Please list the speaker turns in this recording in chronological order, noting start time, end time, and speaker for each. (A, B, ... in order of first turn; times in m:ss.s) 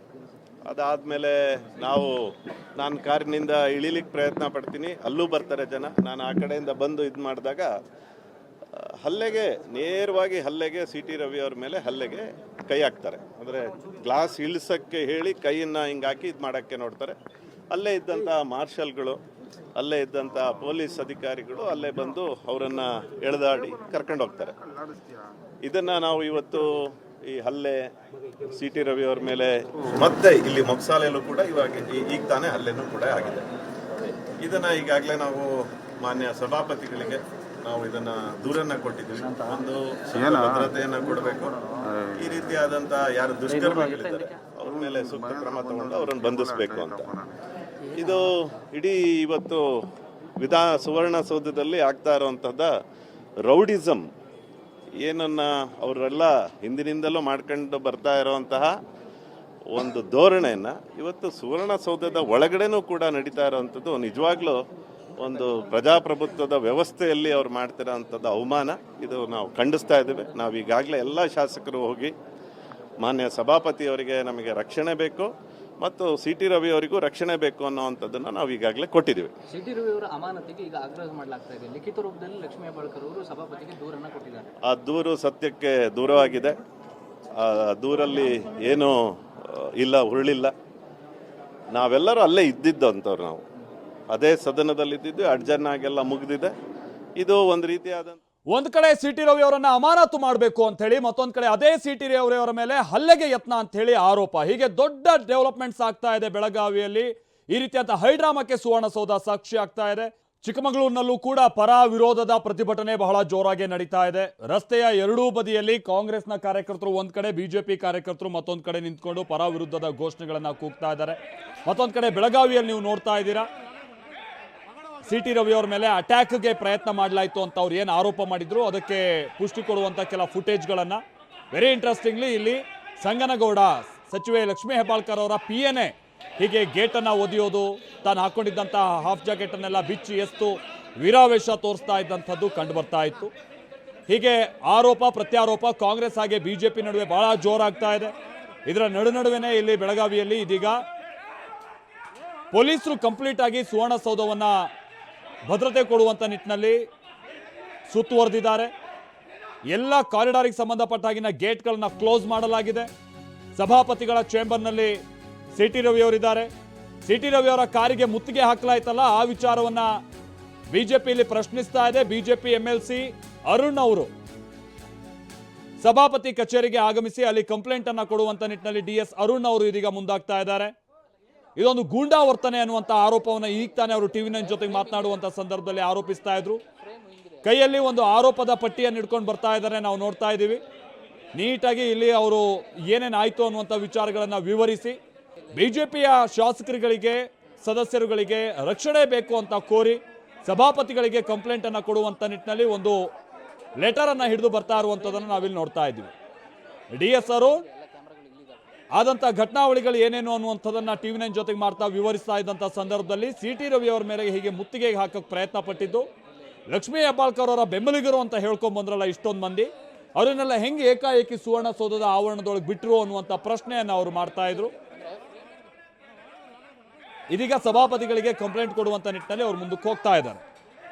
0:00.6-0:07.7 A
0:08.7-0:17.2 A
0:17.7-0:19.2 A
0:19.8-0:24.6 A
0:25.6-0:27.8 A
0:28.4-0:33.5 A
0:34.3-0:47.2 A
0:47.8-0:49.8 A
0:50.4-0:52.7 A
0:53.4-0:54.0 A
0:55.0-0:58.7 A
0:59.7-1:04.6 A
1:05.2-1:12.1 A
1:13.0-1:19.3 A
1:19.5-1:24.5 B
1:24.6-1:26.6 A
1:27.4-1:30.5 A
1:31.7-1:33.4 A
1:34.1-1:36.5 A
1:37.2-1:38.2 A
1:38.5-2:03.5 C
2:05.0-2:23.3 C
2:24.1-2:28.1 C
2:28.6-2:30.8 C
2:32.5-2:34.7 C
2:35.5-2:36.8 C
2:37.9-2:38.7 C
2:39.7-2:42.9 C
2:43.6-2:45.0 C
2:45.6-2:46.5 C
2:47.0-2:49.9 C
2:50.7-2:54.1 C
2:55.8-3:00.7 C
3:01.6-3:06.6 C
3:04.6-3:05.2 B
3:06.8-3:07.4 B
3:07.4-3:10.6 C
3:11.4-3:15.0 C
3:15.5-3:23.0 C
3:23.8-3:26.1 C
3:26.9-3:27.6 C
3:27.2-3:28.7 B
3:28.9-3:36.1 C
3:36.7-3:44.7 C
3:45.0-3:45.4 B
3:47.3-3:50.4 C